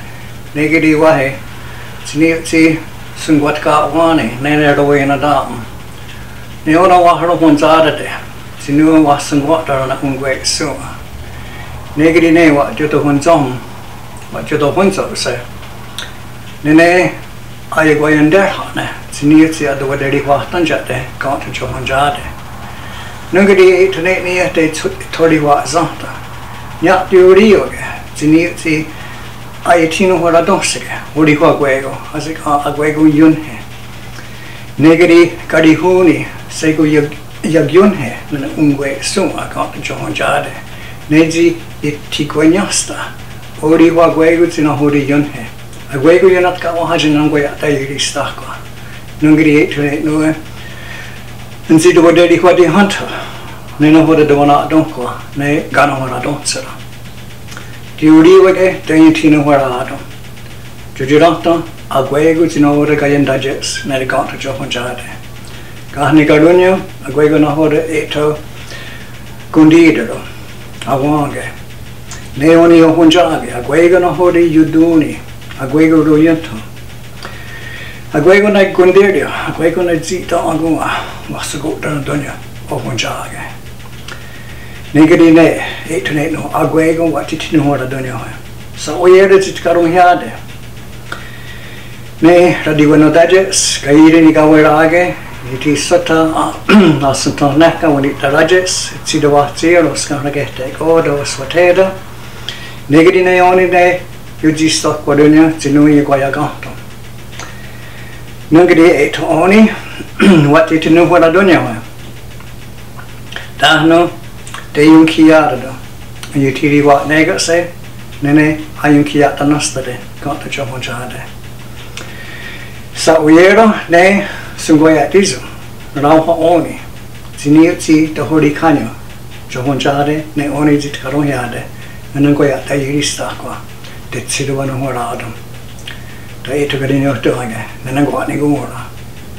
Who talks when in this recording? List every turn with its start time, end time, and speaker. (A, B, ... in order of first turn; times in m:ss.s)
0:00.5-0:01.4 A
0:02.0-0:05.7 A
0:06.6-0:10.9 A
0:11.9-0:13.6 A
0:14.3-0:15.4 A
0:16.6-0:17.2 A
0:17.7-0:22.3 A
0:23.3-0:26.2 A
0:26.8-0:28.9 A
0:29.6-0:33.6 A
0:34.8-0:48.6 A
0:49.2-0:50.4 A
0:51.7-0:53.1 A
0:53.8-0:56.7 A
0:58.0-1:00.0 A
1:00.9-1:05.1 A
1:05.9-1:08.4 A
1:09.5-1:10.2 A
1:10.8-1:11.5 A
1:12.3-1:16.6 A
1:18.1-1:23.5 A
1:24.9-1:30.4 A
1:32.2-1:41.9 A
1:42.9-1:46.8 A
1:48.5-1:51.8 A
1:53.6-1:54.1 A
1:54.7-1:55.8 A
1:56.3-1:57.7 A
1:58.2-2:01.3 A
2:02.9-2:06.8 A
2:07.4-2:08.9 A
2:09.5-2:15.4 A
2:16.4-2:18.9 A